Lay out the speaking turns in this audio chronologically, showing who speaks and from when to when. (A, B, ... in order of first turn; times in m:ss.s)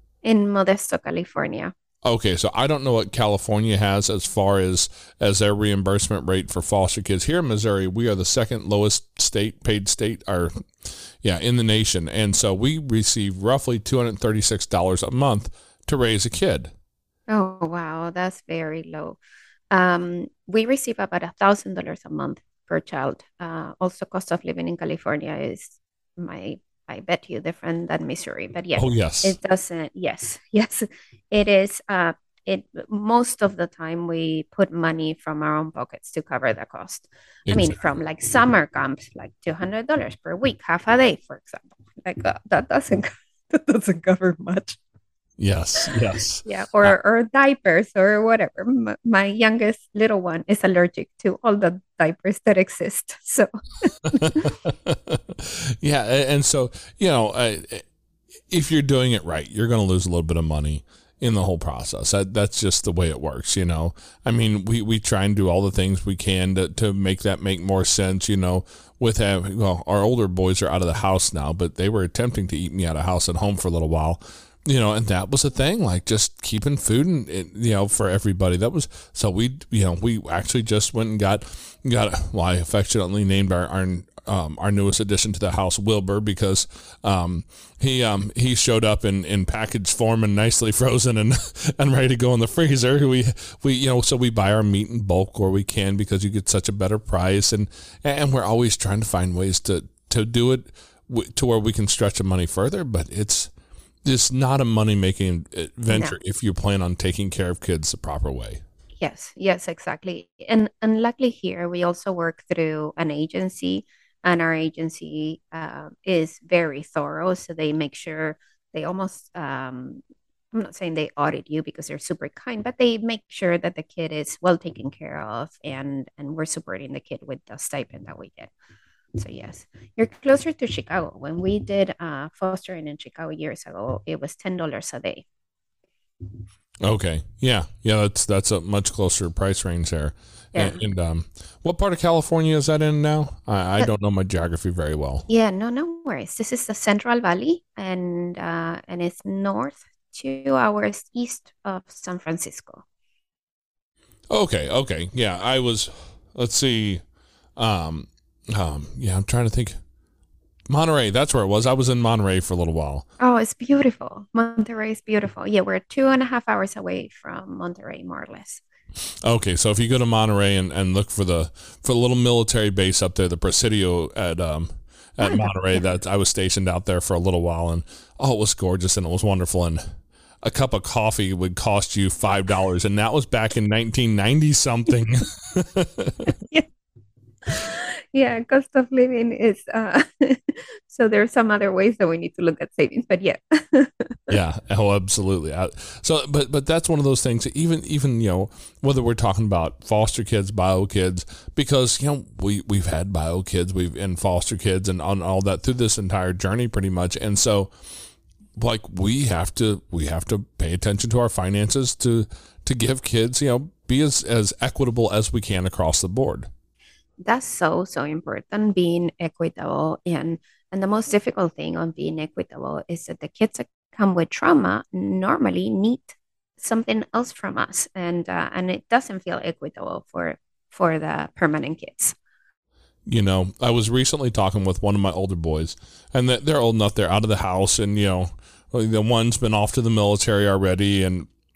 0:00.2-0:01.7 A
0:02.0-0:16.7 B
0:17.3-0:19.2 A
0:19.7-0:44.8 A
0:28.7-0:29.4 B
0:37.5-0:37.8 B
0:45.4-0:46.9 B
0:45.8-0:54.5 A
0:54.1-0:57.8 B
0:58.5-1:43.5 B
1:44.0-1:48.6 B
1:45.9-1:46.2 A
1:49.0-2:08.5 A
2:09.2-2:15.2 A
2:16.8-2:25.2 B
2:20.5-2:20.8 A
2:25.3-2:32.8 A
2:34.3-2:37.0 B
2:37.6-2:39.8 B
2:40.7-2:43.0 B
2:43.2-2:48.6 A
2:49.2-2:59.8 B
2:55.2-2:55.5 A
3:00.4-3:06.3 B
3:06.3-3:06.6 A
3:07.4-3:14.3 A
3:14.3-3:27.7 B
3:28.6-3:36.5 B
3:37.2-3:52.1 A
3:53.0-4:01.3 B